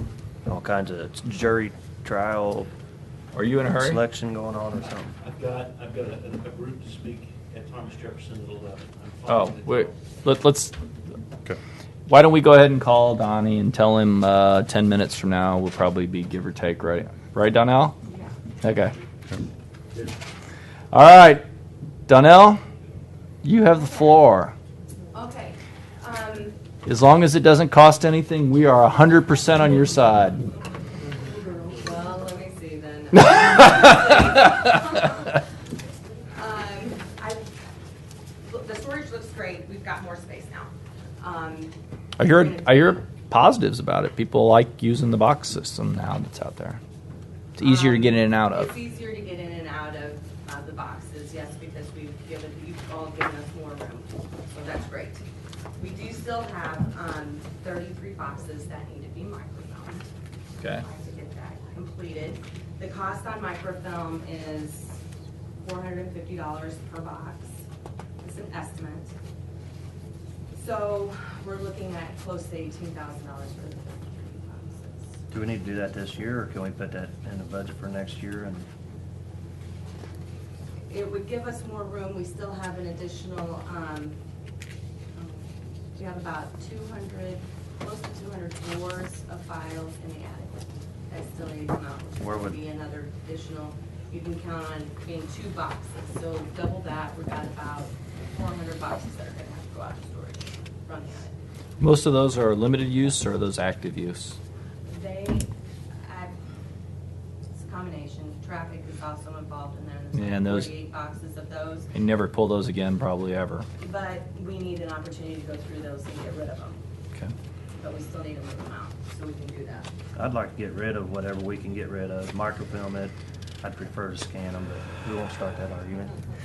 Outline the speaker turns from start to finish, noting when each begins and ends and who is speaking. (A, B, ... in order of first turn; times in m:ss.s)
0:00.5-0:02.7 A
0:03.3-0:04.0 B
0:03.8-0:05.2 A
0:05.2-0:10.0 C
0:09.3-0:10.8 B
0:12.1-0:18.0 B
0:18.1-0:18.4 D
0:18.6-0:19.0 B
0:20.9-0:21.4 B
0:22.1-0:22.6 B
0:23.4-0:24.6 B
0:23.8-0:24.2 D
0:25.1-0:26.6 D
0:26.9-0:30.4 B
0:31.7-0:35.4 D
0:33.2-0:33.7 B
0:36.4-0:37.5 D
0:38.4-0:43.0 D
0:42.2-0:46.8 B
0:47.6-0:48.7 B
0:47.6-0:55.2 D
0:55.8-1:00.1 D
1:00.8-1:05.0 D
1:05.6-1:07.6 D
1:08.2-1:09.1 D
1:10.5-1:15.2 D
1:15.3-1:18.7 A
1:20.9-1:24.2 D
1:25.2-1:41.3 D
1:32.2-1:32.5 A
1:41.8-1:44.4 B
1:44.9-1:45.5 D
1:46.0-1:46.4 D
1:47.6-1:51.9 D
1:50.2-1:50.7 B
1:51.9-1:53.7 B
1:53.8-1:56.8 D
1:57.8-1:59.9 D
2:00.2-2:06.1 A